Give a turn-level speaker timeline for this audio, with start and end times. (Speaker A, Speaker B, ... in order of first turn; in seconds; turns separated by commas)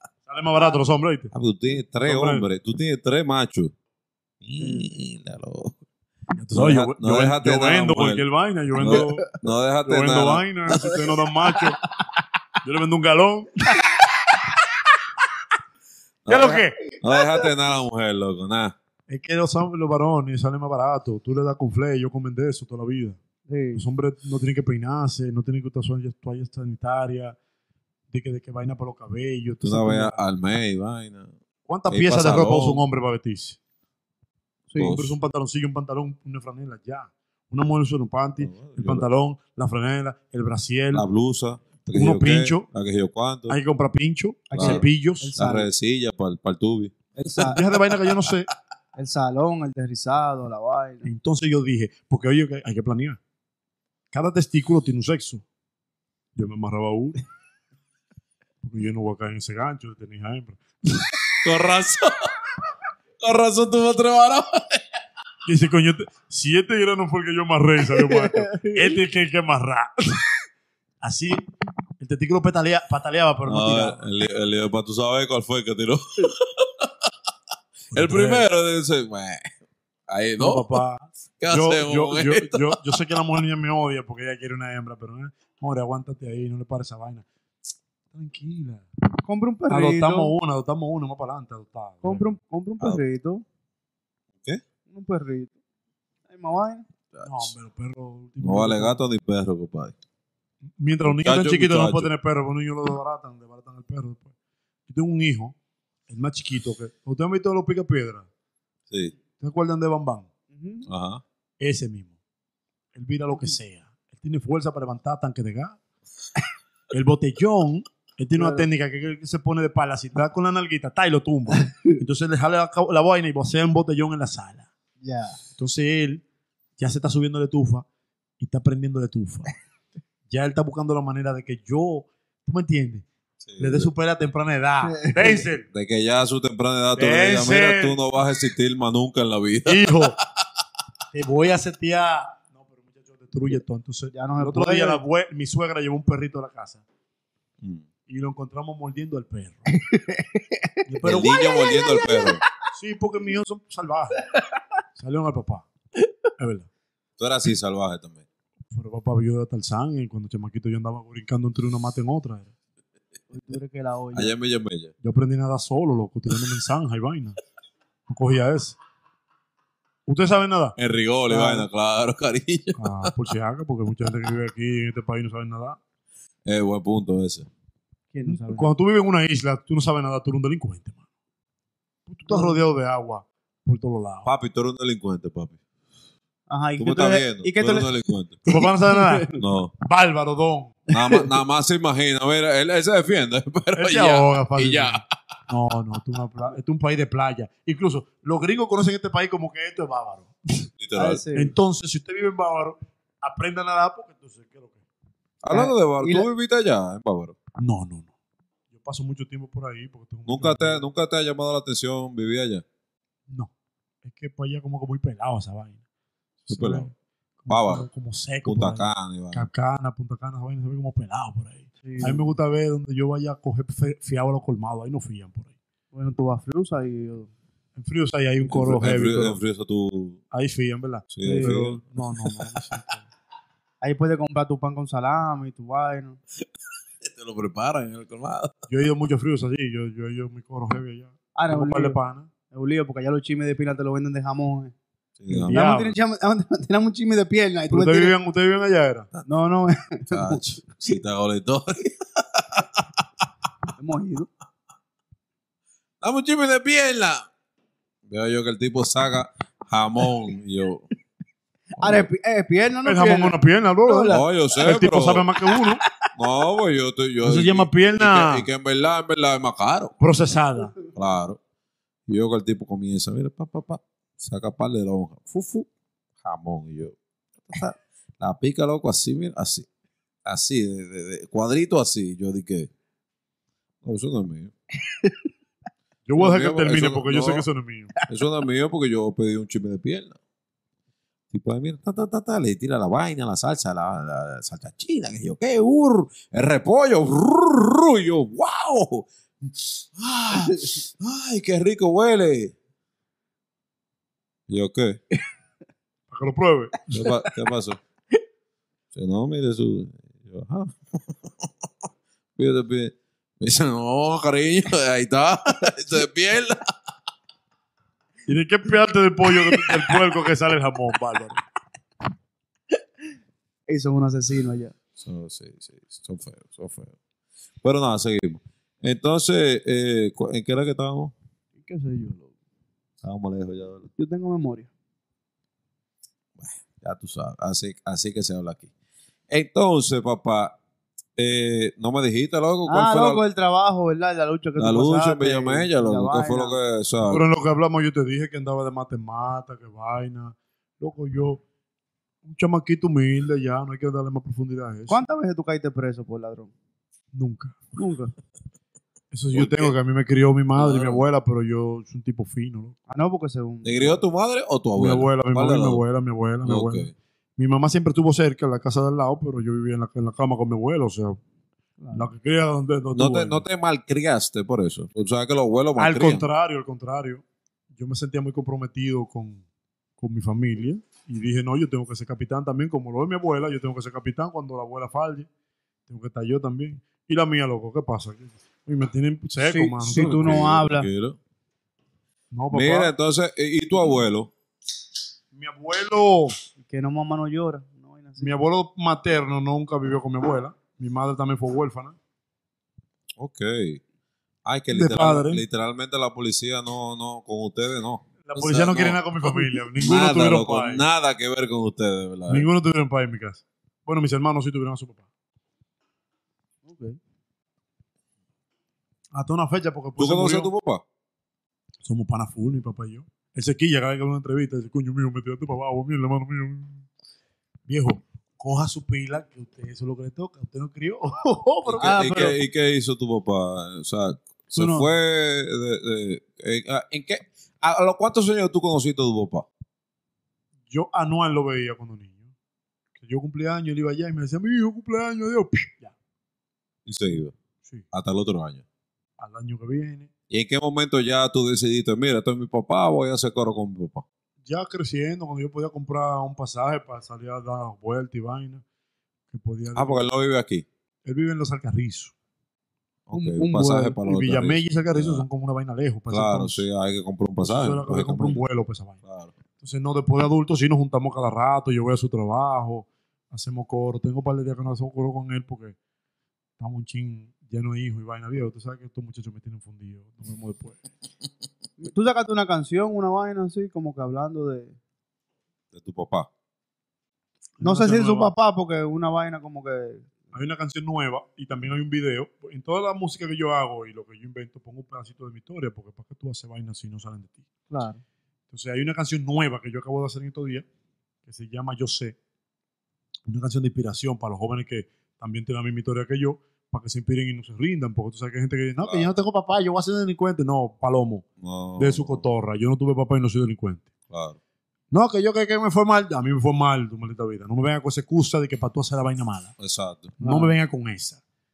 Speaker A: 0.3-1.3, Speaker B: 1.3-3.7, Speaker A: 2.0-2.5, Speaker B: 4.4-5.8, Speaker C: 4.6-4.9, Speaker A: 6.4-11.8, Speaker B: 6.5-8.2, Speaker B: 8.7-10.5, Speaker C: 8.9-9.2, Speaker C: 10.7-11.7, Speaker A: 12.6-13.8, Speaker B: 16.2-18.7, Speaker A: 16.3-16.8, Speaker A: 19.1-23.2, Speaker C: 23.5-23.8, Speaker A: 23.7-27.4, Speaker A: 28.1-30.2, Speaker B: 29.6-31.3, Speaker A: 31.7-33.6, Speaker B: 31.9-32.8, Speaker C: 34.7-35.0, Speaker B: 34.8-35.2, Speaker A: 34.8-41.0, Speaker B: 38.4-39.0, Speaker B: 40.9-43.6, Speaker A: 41.8-42.6, Speaker A: 43.5-45.3, Speaker C: 44.5-45.7, Speaker B: 44.5-47.5, Speaker C: 47.2-47.7, Speaker A: 47.5-48.5, Speaker C: 49.0-51.1, Speaker A: 51.0-53.2, Speaker A: 54.1-55.4, Speaker A: 56.4-57.2, Speaker A: 58.6-61.1, Speaker B: 61.4-62.3, Speaker B: 63.2-64.8, Speaker A: 65.4-70.3, Speaker C: 68.0-68.9, Speaker A: 71.0-71.4, Speaker A: 72.0-74.0, Speaker B: 73.5-77.1, Speaker A: 77.9-78.5, Speaker B: 77.9-79.5, Speaker B: 80.1-80.8, Speaker A: 80.4-87.2, Speaker B: 81.4-82.8, Speaker A: 88.1-88.8, Speaker C: 89.2-90.3, Speaker A: 89.7-92.3, Speaker C: 92.0-93.4, Speaker C: 94.9-95.5, Speaker C: 96.3-96.8, Speaker B: 97.1-97.5, Speaker A: 97.2-99.0, Speaker B: 98.4-99.9, Speaker A: 100.8-104.3, Speaker B: 101.0-102.1, Speaker A: 104.9-105.5, Speaker A: 106.1-108.3, Speaker A: 109.4-110.3, Speaker C: 110.5-110.9, Speaker B: 110.8-111.2, Speaker A: 111.6-112.1, Speaker A: 112.9-115.8, Speaker A: 116.9-124.7, Speaker C: 118.4-118.7, Speaker C: 121.5-122.0, Speaker C: 125.0-125.4, Speaker A: 125.6-126.2, Speaker A: 126.8-127.8, Speaker A: 128.4-129.6, Speaker A: 130.3-133.0, Speaker B: 133.4-133.9, Speaker A: 133.6-135.7, Speaker C: 134.8-135.4, Speaker B: 135.7-140.1, Speaker A: 136.9-138.0, Speaker A: 139.7-140.2, Speaker A: 141.1-146.8, Speaker C: 144.1-145.0, Speaker A: 148.1-149.7, Speaker C: 149.7-152.3, Speaker A: 150.8-151.4, Speaker B: 151.0-152.4, Speaker A: 152.7-154.2, Speaker A: 154.9-155.7, Speaker A: 156.4-156.7, Speaker B: 157.2-158.2, Speaker A: 158.7-162.5, Speaker C: 163.3-164.3, Speaker B: 164.1-164.9, Speaker A: 165.0-167.4, Speaker A: 168.1-168.8, Speaker A: 170.1-170.8, Speaker B: 170.8-173.1, Speaker A: 171.3-171.7, Speaker A: 172.8-175.8, Speaker B: 176.4-177.5, Speaker C: 178.1-178.7, Speaker A: 178.3-181.0, Speaker A: 182.1-184.3, Speaker C: 182.3-182.6, Speaker B: 184.2-185.6, Speaker C: 186.5-187.9, Speaker B: 186.8-188.4, Speaker A: 188.4-190.8, Speaker C: 188.5-189.3, Speaker B: 189.4-189.7, Speaker B: 190.9-195.0, Speaker A: 193.8-200.7, Speaker B: 200.8-201.2, Speaker C: 200.9-201.5, Speaker A: 201.3-204.8, Speaker B: 205.4-207.3, Speaker C: 205.5-206.3, Speaker A: 207.6-208.1, Speaker A: 208.7-210.8, Speaker B: 210.3-212.6, Speaker A: 214.0-215.8, Speaker A: 216.4-225.5, Speaker B: 216.5-216.9, Speaker B: 217.5-217.8, Speaker B: 218.4-219.5, Speaker C: 221.8-222.2, Speaker C: 225.9-227.3, Speaker A: 227.8-229.4, Speaker B: 228.4-230.2, Speaker A: 230.3-233.0, Speaker B: 231.1-232.7, Speaker C: 231.2-231.6, Speaker C: 233.8-236.2, Speaker B: 237.0-238.5, Speaker A: 238.7-242.3, Speaker C: 241.3-242.0, Speaker C: 242.5-244.7, Speaker B: 245.2-245.6, Speaker A: 245.3-245.9, Speaker C: 245.5-248.1, Speaker A: 247.7-249.1, Speaker C: 249.2-250.6, Speaker B: 250.1-253.0, Speaker C: 253.8-254.3, Speaker B: 256.0-257.3, Speaker B: 258.1-260.8, Speaker C: 261.8-264.2, Speaker B: 261.8-262.1, Speaker A: 262.8-265.8, Speaker B: 264.1-265.3, Speaker C: 265.5-265.9, Speaker B: 266.1-269.9, Speaker A: 267.2-268.5, Speaker A: 270.0-270.7, Speaker B: 270.9-271.4, Speaker B: 272.1-275.7, Speaker B: 276.2-279.7, Speaker B: 280.2-282.7, Speaker B: 283.8-284.5, Speaker C: 284.9-285.2, Speaker A: 286.1-287.9, Speaker B: 286.2-287.5, Speaker B: 288.1-290.1, Speaker B: 291.3-302.5, Speaker B: 304.5-305.0, Speaker A: 306.1-307.0, Speaker B: 306.9-307.8, Speaker B: 308.9-311.5, Speaker B: 312.4-316.7, Speaker A: 318.3-321.4, Speaker C: 323.7-324.7, Speaker B: 325.0-326.9, Speaker B: 327.6-331.1, Speaker C: 331.6-332.3, Speaker B: 333.0-333.9, Speaker C: 334.0-334.7, Speaker B: 336.4-338.7, Speaker B: 339.3-340.6, Speaker B: 341.2-343.2, Speaker C: 342.7-346.6, Speaker B: 344.6-347.2, Speaker A: 347.1-351.4, Speaker A: 352.2-355.0, Speaker C: 354.9-356.5, Speaker A: 357.1-358.1, Speaker A: 359.1-362.8, Speaker B: 359.3-359.7, Speaker B: 360.5-361.0, Speaker C: 362.9-364.0, Speaker B: 363.6-365.8, Speaker A: 364.8-371.2, Speaker B: 366.4-366.9, Speaker C: 371.8-372.1, Speaker A: 371.9-373.4, Speaker B: 372.9-376.2, Speaker A: 375.8-377.2, Speaker A: 377.8-379.4, Speaker A: 380.0-385.3, Speaker A: 385.9-390.4, Speaker C: 389.4-390.9, Speaker B: 389.9-391.2, Speaker A: 392.3-392.9, Speaker B: 392.5-394.3, Speaker A: 395.3-396.4, Speaker C: 396.6-398.3, Speaker A: 398.2-402.0, Speaker B: 403.2-403.8, Speaker B: 404.4-412.5, Speaker A: 404.7-405.4, Speaker A: 408.2-410.8, Speaker A: 412.3-415.0, Speaker C: 416.6-417.0, Speaker A: 419.1-420.5, Speaker B: 420.0-420.8, Speaker A: 421.8-426.9, Speaker A: 427.7-431.9, Speaker B: 431.6-439.5, Speaker C: 431.8-432.4, Speaker C: 434.6-434.9, Speaker A: 440.7-442.3, Speaker A: 442.9-445.9, Speaker B: 446.9-447.3, Speaker B: 447.9-448.6, Speaker A: 449.2-450.1, Speaker B: 450.3-454.0, Speaker A: 454.4-458.6, Speaker A: 459.3-460.1, Speaker B: 459.7-460.6, Speaker A: 461.0-462.1, Speaker B: 463.1-465.2, Speaker C: 463.1-464.0, Speaker A: 464.0-466.6, Speaker B: 466.1-468.4, Speaker A: 467.4-469.0, Speaker B: 469.0-469.4, Speaker A: 469.6-475.8, Speaker A: 476.6-480.8, Speaker C: 481.8-484.8, Speaker B: 485.7-486.3, Speaker A: 487.6-488.3, Speaker C: 487.6-490.1, Speaker A: 490.3-497.4, Speaker C: 497.7-498.0, Speaker A: 498.5-500.6, Speaker A: 501.2-502.2, Speaker A: 503.2-511.2, Speaker B: 508.8-509.1, Speaker B: 511.4-512.2, Speaker A: 511.8-513.9, Speaker B: 514.1-514.4, Speaker A: 514.9-519.5, Speaker B: 519.6-520.2, Speaker C: 520.2-520.5, Speaker A: 520.2-521.2